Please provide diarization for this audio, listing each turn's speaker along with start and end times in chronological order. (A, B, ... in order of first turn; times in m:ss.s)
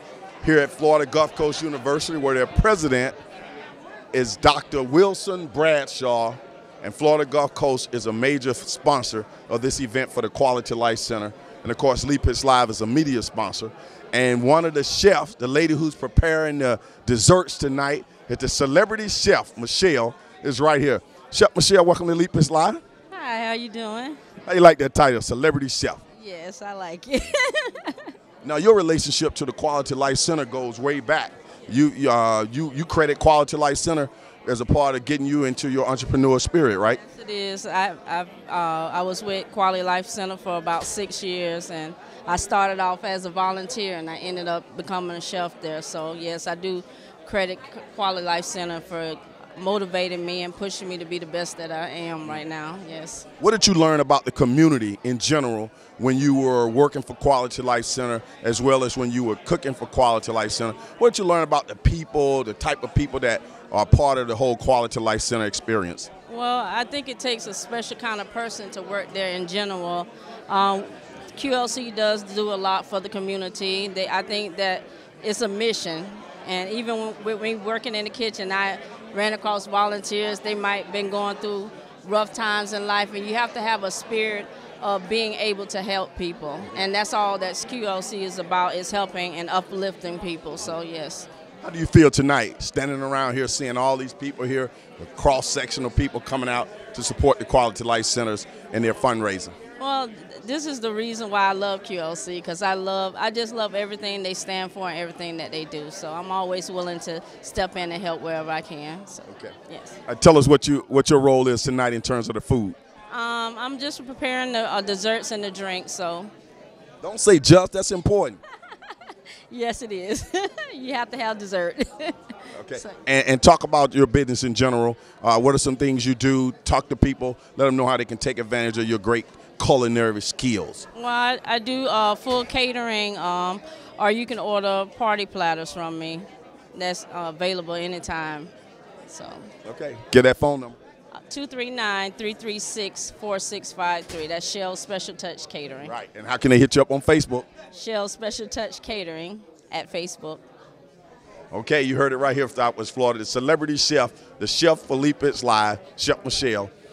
0:00.4-0:03.2 A
0:04.1-0:22.8 A
0:23.1-0:24.2 B
0:24.4-0:26.0 A
0:26.2-0:28.1 B
0:28.4-0:37.0 A
0:37.0-0:53.2 B
0:53.4-1:06.1 A
1:06.3-1:31.3 B
1:31.6-1:39.6 A
1:39.8-1:50.0 B
1:49.3-1:49.5 A
1:50.1-1:52.8 A
1:53.1-1:56.3 B
1:57.0-1:58.4 A
1:59.5-2:03.0 B
2:02.5-2:10.9 A
2:10.9-2:18.5 B
2:19.1-2:19.5 B
2:19.6-2:20.8 A
2:21.1-2:25.9 B
2:25.8-2:27.5 A
2:27.7-2:30.4 B
2:31.5-2:36.7 A